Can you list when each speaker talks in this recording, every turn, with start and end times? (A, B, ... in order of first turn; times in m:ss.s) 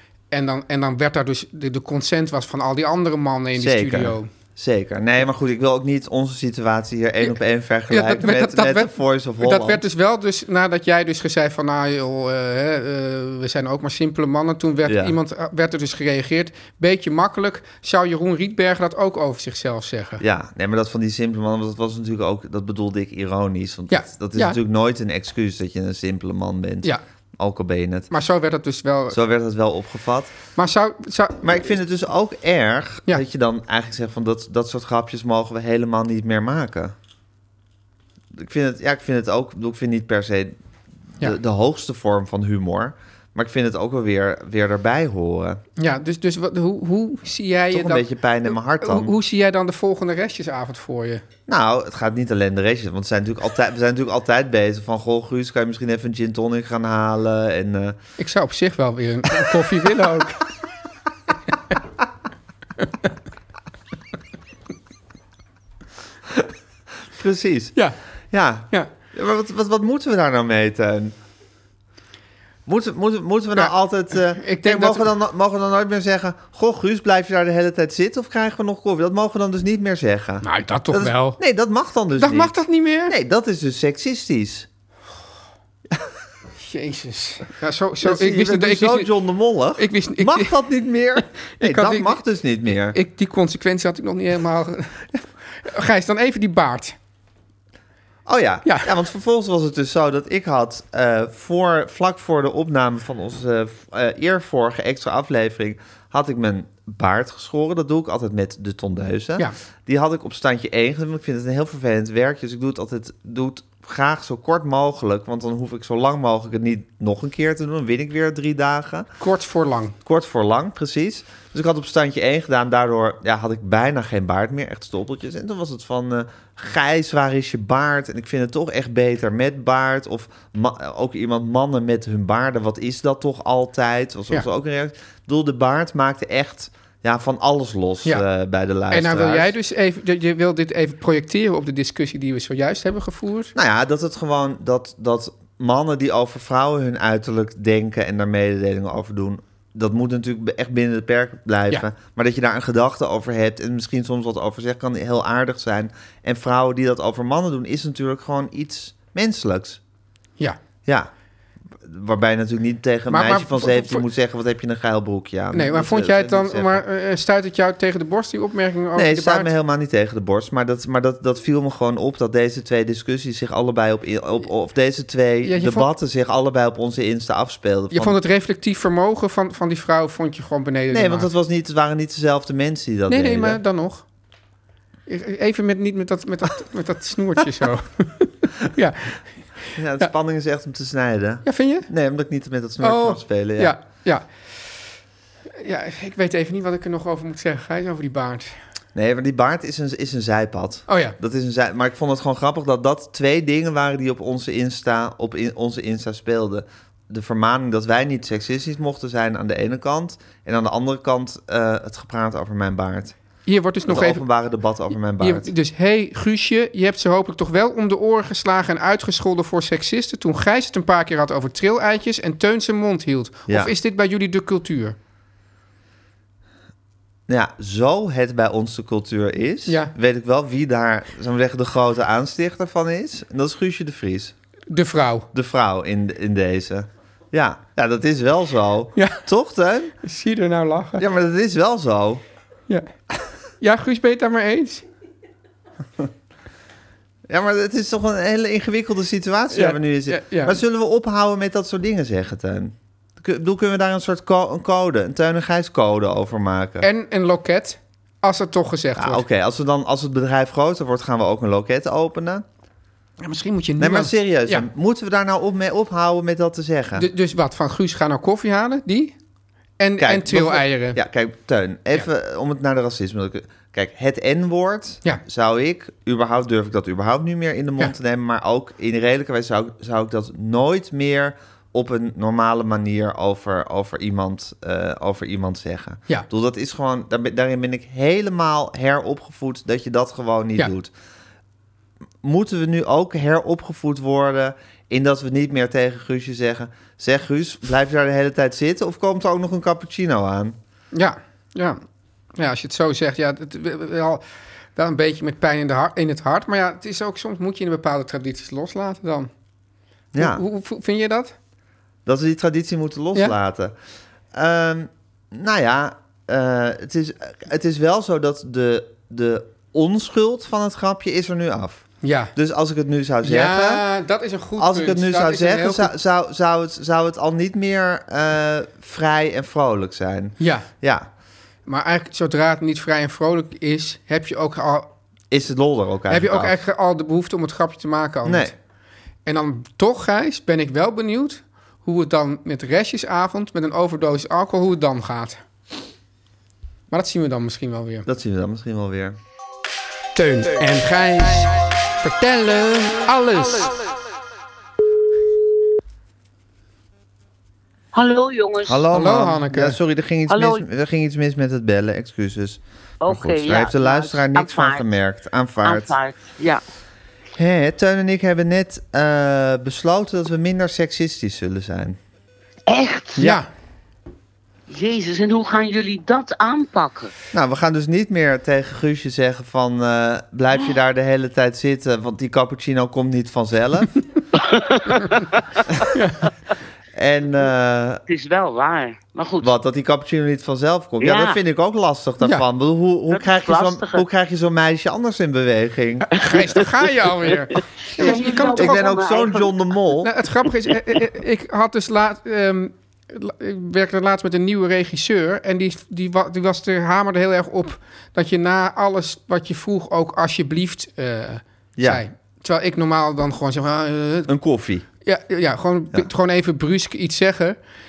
0:00.3-0:04.3 A
0:03.6-0:09.8 B
0:07.9-0:20.2 A
0:14.9-0:15.2 B
0:20.2-0:28.1 B
0:23.9-0:24.6 A
0:28.1-0:29.2 A
0:29.1-0:30.3 B
0:30.6-0:31.4 A
0:31.4-0:37.0 B
0:38.3-0:40.6 B
0:41.2-0:45.6 B
0:45.8-0:51.2 A
0:47.7-0:49.1 B
0:51.5-0:58.0 B
0:58.2-1:00.5 A
1:02.8-1:03.1 A
1:07.1-1:07.8 B
1:08.3-1:11.2 B
1:12.7-1:24.7 B
1:14.3-1:15.1 A
1:20.4-1:21.4 A
1:22.2-1:23.2 A
1:26.6-1:29.1 A
1:28.0-1:33.0 B
1:29.8-1:30.6 A
1:31.2-1:32.2 A
1:32.9-1:37.0 A
1:38.3-1:59.1 B
1:38.6-1:38.9 A
1:59.2-2:00.0 A
2:00.0-2:19.5 B
2:18.9-2:23.5 A
2:23.6-2:39.8 B
2:40.8-2:41.1 B
2:41.8-2:46.8 B
2:43.1-2:44.0 A
2:45.5-2:49.5 A
2:49.0-2:58.2 B
2:55.4-2:55.9 A
2:57.9-3:01.3 A
3:00.9-3:03.6 B
3:03.1-3:04.0 A
3:05.1-3:10.1 A
3:09.8-3:13.8 B
3:11.4-3:11.9 A
3:12.8-3:14.3 A
3:15.6-3:18.5 A
3:19.0-3:33.2 B
3:20.9-3:21.2 A
3:33.5-3:34.2 A
3:33.9-3:35.5 B
3:35.2-3:45.0 A
3:47.3-3:54.3 B
3:49.7-3:49.9 A
3:54.7-3:55.3 A
3:55.3-4:00.0 B
3:59.0-3:59.2 A
4:00.0-4:01.0 A
4:01.0-4:02.2 B
4:03.6-4:04.8 A
4:07.3-4:16.9 B
4:09.5-4:10.6 A
4:16.8-4:19.2 A
4:19.0-4:22.4 B
4:23.2-4:24.7 A
4:23.8-4:27.1 B
4:27.0-4:29.2 A
4:29.8-4:31.0 A
4:30.0-4:50.9 B
4:52.2-5:00.6 B
5:00.9-5:01.8 A
5:02.4-5:04.2 A
5:04.8-5:09.3 A
5:10.1-5:10.4 B
5:10.2-5:11.4 A
5:12.1-5:13.8 B
5:14.3-5:23.8 B
5:22.0-5:22.3 A
5:23.2-5:25.9 A
5:24.6-5:31.1 B
5:30.4-5:30.7 A
5:31.7-5:34.9 A
5:35.3-5:36.6 B
5:36.1-5:38.6 A
5:38.2-5:38.5 B
5:39.2-5:45.4 A
5:46.9-5:48.1 A
5:48.1-5:49.2 B
5:50.2-5:53.8 A
5:57.9-5:58.8 C
5:58.7-6:06.0 B
5:58.9-5:59.8 A
6:00.3-6:00.6 C
6:03.0-6:04.8 C
6:05.6-6:06.6 C
6:07.4-6:12.0 B
6:12.7-6:13.3 C
6:13.2-6:13.4 B
6:13.2-6:13.5 A
6:14.7-6:17.1 C
6:17.3-6:23.9 B
6:24.4-6:25.6 C
6:25.9-6:26.3 A
6:26.9-6:28.0 B
6:28.1-6:29.5 C
6:29.4-6:36.3 B
6:31.0-6:31.4 C
6:33.1-6:34.0 C
6:36.1-6:38.8 A
6:37.9-6:39.5 C
6:38.0-6:40.1 B
6:40.0-6:54.3 A
6:51.8-6:52.0 B
6:54.3-6:54.8 B
6:55.0-6:57.6 A